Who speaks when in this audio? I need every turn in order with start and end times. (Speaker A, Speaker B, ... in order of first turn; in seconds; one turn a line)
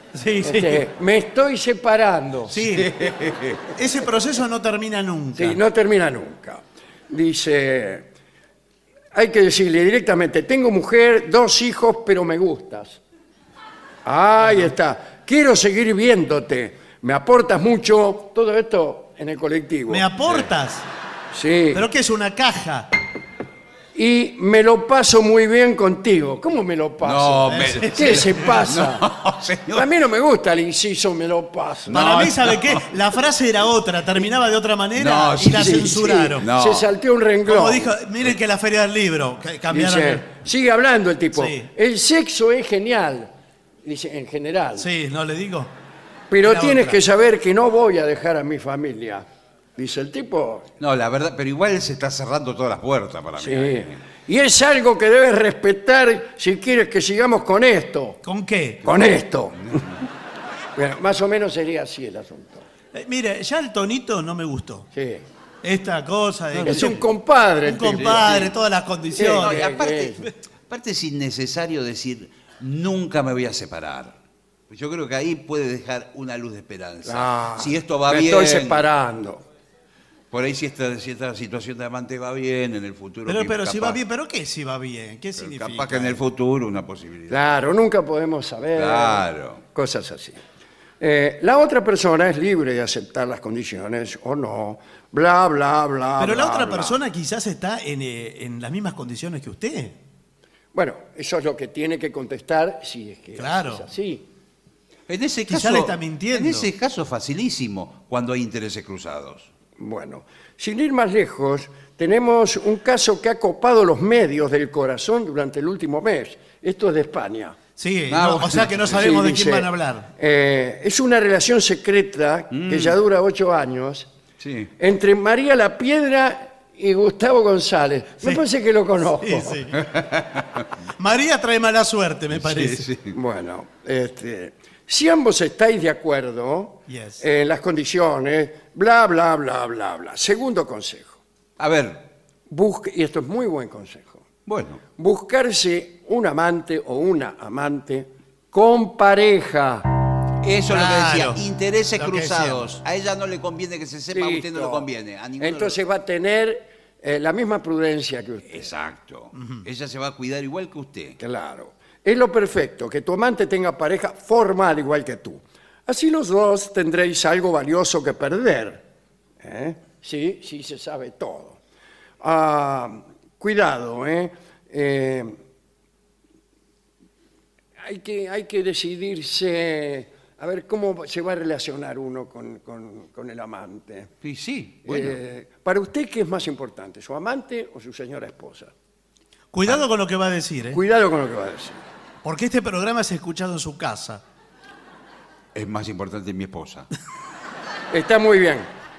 Speaker A: 0.1-0.8
Speaker B: 0.4-2.7
Speaker A: 2.5-2.9
Speaker C: 2.7-3.6
Speaker A: 3.7-5.6
Speaker B: 5.3-8.1
Speaker B: 9.1-13.0
Speaker B: 14.0-20.1
Speaker A: 19.9-20.9
Speaker B: 21.3-21.8
Speaker A: 21.7-22.9
Speaker B: 23.9-29.1
Speaker C: 27.0-29.9
Speaker A: 27.5-28.6
Speaker B: 29.7-32.0
Speaker C: 31.9-32.9
Speaker A: 31.9-36.5
Speaker C: 35.0-36.9
Speaker B: 35.4-37.9
Speaker A: 37.5-40.2
Speaker B: 39.7-43.3
Speaker A: 41.3-41.7
Speaker B: 43.8-44.9
Speaker A: 44.8-45.7
Speaker B: 46.3-49.2
Speaker A: 46.4-47.0
Speaker B: 49.8-50.7
Speaker C: 50.8-54.0
Speaker B: 53.4-58.2
Speaker A: 58.2-58.8
Speaker B: 58.8-59.9
Speaker B: 60.7-62.7
Speaker A: 62.9-64.9
Speaker B: 64.9-65.2
Speaker A: 65.6-67.1
Speaker B: 66.6-68.5
Speaker C: 66.6-66.9
Speaker A: 67.6-69.6
Speaker C: 68.0-68.5
Speaker B: 69.1-70.2
Speaker C: 69.2-74.2
Speaker C: 74.7-78.8
Speaker B: 77.0-79.4
Speaker C: 80.3-84.0
Speaker A: 83.3-86.2
Speaker C: 85.4-87.5
Speaker B: 87.3-90.4
Speaker C: 88.7-89.6
Speaker B: 91.0-97.0
Speaker A: 96.2-100.0
Speaker B: 100.7-104.3
Speaker A: 103.4-103.8
Speaker C: 105.1-109.5
Speaker A: 105.5-106.7
Speaker B: 109.8-117.6
Speaker A: 117.8-120.1
Speaker C: 118.1-119.0
Speaker B: 118.9-124.1
Speaker C: 122.5-123.0
Speaker C: 124.4-124.7
Speaker B: 124.8-129.7
Speaker A: 129.2-129.8
Speaker C: 129.8-130.6
Speaker A: 131.0-132.9
Speaker C: 132.3-133.2
Speaker B: 133.1-141.2
Speaker A: 136.9-137.2
Speaker C: 141.6-142.1
Speaker B: 142.5-144.2
Speaker C: 144.4-144.8
Speaker B: 145.0-149.9
Speaker C: 150.4-155.8
Speaker A: 150.7-151.4
Speaker A: 151.9-152.6
Speaker B: 154.1-154.9
Speaker B: 155.4-158.7
Speaker C: 158.5-161.2
Speaker A: 159.4-159.6
Speaker B: 161.2-168.8
Speaker B: 169.4-171.6
Speaker B: 172.2-175.4
Speaker B: 177.8-184.1
Speaker C: 184.2-185.2
Speaker B: 184.8-188.7
Speaker A: 189.5-190.8
Speaker B: 190.7-191.8
Speaker A: 192.2-194.2
Speaker C: 195.5-196.9
Speaker B: 197.9-198.7